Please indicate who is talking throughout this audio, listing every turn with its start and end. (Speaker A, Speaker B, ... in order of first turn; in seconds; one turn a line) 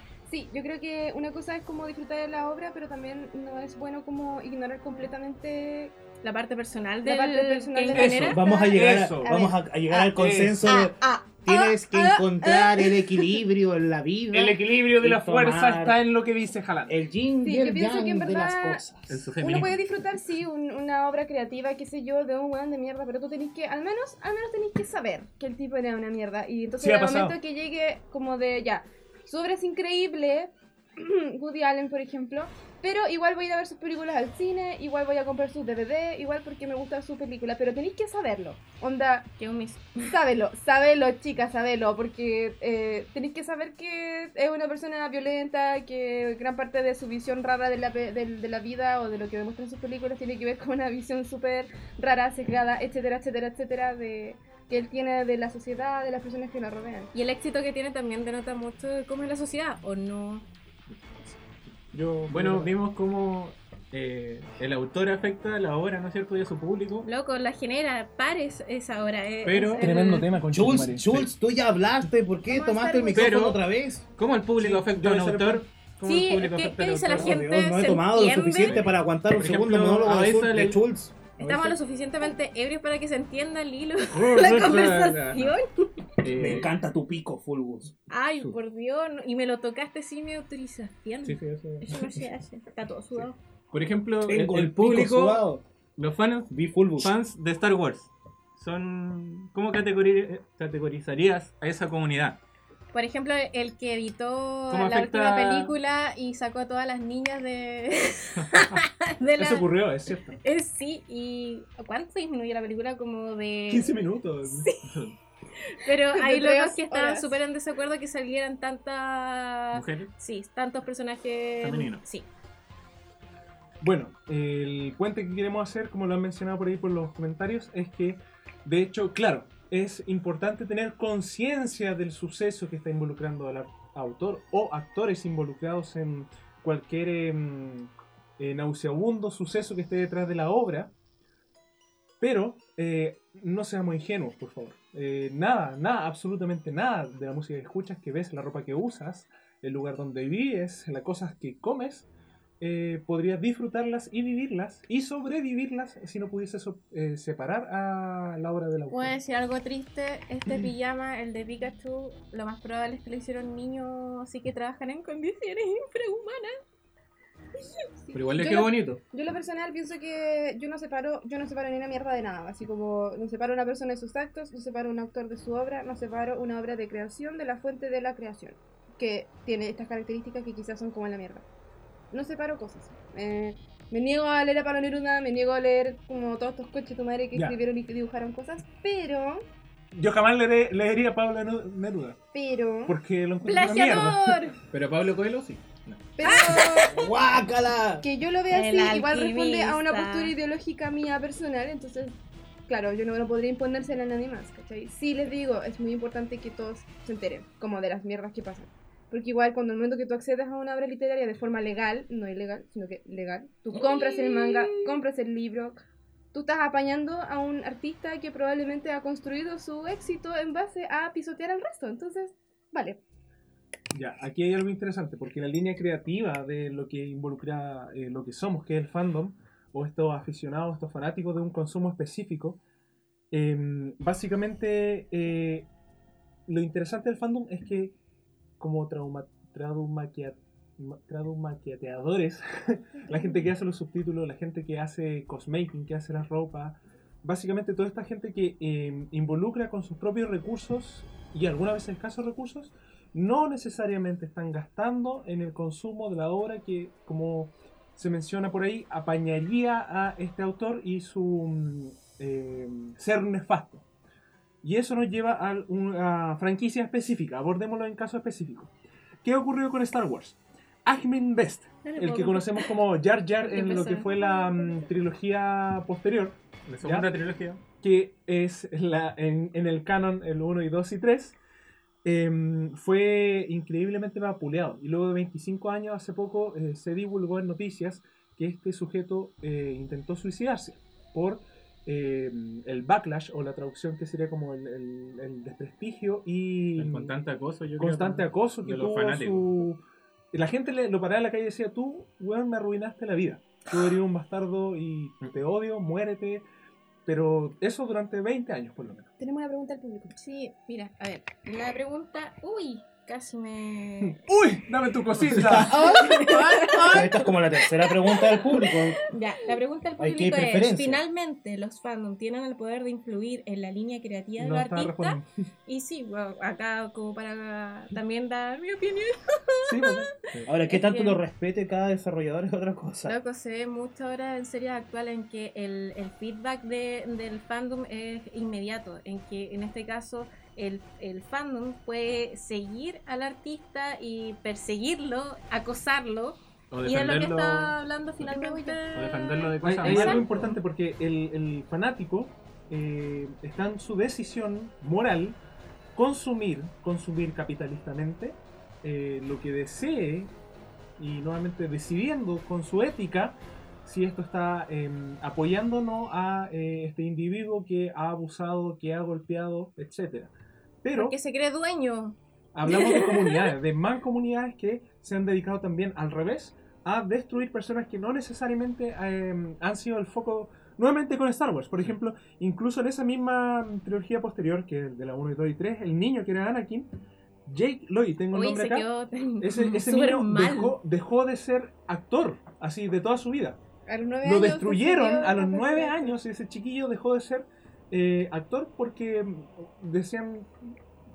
Speaker A: 0.3-5.9
Speaker B: 6.2-8.4
Speaker A: 7.0-10.0
Speaker C: 7.9-9.3
Speaker D: 8.2-16.0
Speaker C: 10.0-10.7
Speaker A: 10.6-13.4
Speaker C: 14.3-17.0
Speaker D: 16.9-19.2
Speaker A: 17.4-18.8
Speaker E: 19.1-19.8
Speaker A: 19.4-39.3
Speaker C: 26.8-27.4
Speaker B: 39.4-40.2
Speaker A: 40.1-57.1
Speaker B: 57.1-60.5
Speaker E: 60.9-61.3
Speaker C: 61.9-62.8
Speaker E: 62.3-67.1
Speaker B: 67.0-70.3
Speaker E: 69.5-70.0
Speaker C: 69.8-71.3
Speaker D: 70.5-74.1
Speaker A: 72.5-73.4
Speaker E: 73.1-73.6
Speaker E: 74.2-77.3
Speaker C: 74.6-75.7
Speaker B: 76.0-78.8
Speaker D: 77.1-81.4
Speaker E: 78.7-80.8
Speaker B: 81.4-85.7
Speaker E: 84.1-85.6
Speaker E: 86.2-86.7
Speaker D: 86.4-88.0
Speaker B: 88.1-93.4
Speaker E: 91.2-92.1
Speaker E: 93.7-95.5
Speaker D: 94.3-95.6
Speaker E: 96.0-102.4
Speaker D: 96.5-97.1
Speaker B: 102.9-109.7
Speaker E: 104.7-105.8
Speaker C: 109.3-110.4
Speaker B: 110.4-114.8
Speaker C: 113.7-114.7
Speaker E: 114.8-115.2
Speaker B: 115.6-122.3
Speaker A: 116.1-117.4
Speaker E: 119.7-120.1
Speaker E: 121.6-122.0
Speaker C: 123.8-140.9
Speaker C: 142.2-152.1
Speaker C: 152.6-159.2
Speaker B: 158.9-166.5
Speaker E: 168.1-169.0
Speaker A: 168.4-181.4
Speaker A: 182.1-189.4
Speaker C: 187.3-187.6
Speaker C: 189.9-192.2
Speaker A: 192.3-193.0
Speaker C: 192.9-194.4
Speaker B: 193.4-194.6
Speaker E: 194.7-196.0
Speaker A: 196.2-197.0
Speaker B: 196.2-197.0
Speaker D: 196.9-198.1
Speaker A: 198.0-202.2
Speaker B: 198.5-200.3
Speaker A: 202.7-215.8
Speaker B: 213.7-215.0
Speaker A: 216.3-223.0
Speaker C: 223.9-232.6
Speaker C: 233.3-235.7
Speaker C: 236.5-238.0
Speaker C: 238.6-263.9
Speaker C: 264.6-268.7
Speaker C: 269.2-277.1
Speaker B: 271.9-272.8
Speaker B: 273.4-274.7
Speaker E: 276.7-277.6
Speaker C: 277.8-281.4
Speaker C: 282.0-297.1
Speaker E: 296.8-299.6
Speaker C: 297.8-299.8
Speaker C: 300.3-306.4
Speaker C: 307.1-309.1
Speaker A: 309.2-310.2
Speaker B: 310.2-314.2
Speaker C: 314.0-316.9
Speaker D: 315.3-316.0
Speaker B: 315.7-330.1
Speaker A: 315.8-317.1
Speaker D: 316.9-319.0
Speaker D: 320.0-321.0
Speaker C: 324.4-325.3
Speaker C: 329.6-330.1
Speaker D: 330.5-333.1
Speaker B: 330.7-331.2
Speaker B: 333.1-350.6
Speaker E: 346.7-347.7
Speaker A: 348.3-348.8
Speaker E: 348.9-350.4
Speaker C: 349.6-355.4
Speaker C: 355.9-360.3
Speaker C: 361.0-371.2
Speaker B: 370.9-373.5
Speaker C: 372.5-386.9
Speaker C: 387.5-388.9
Speaker B: 388.3-390.8
Speaker C: 389.4-393.6
Speaker A: 393.9-396.2
Speaker C: 394.2-400.5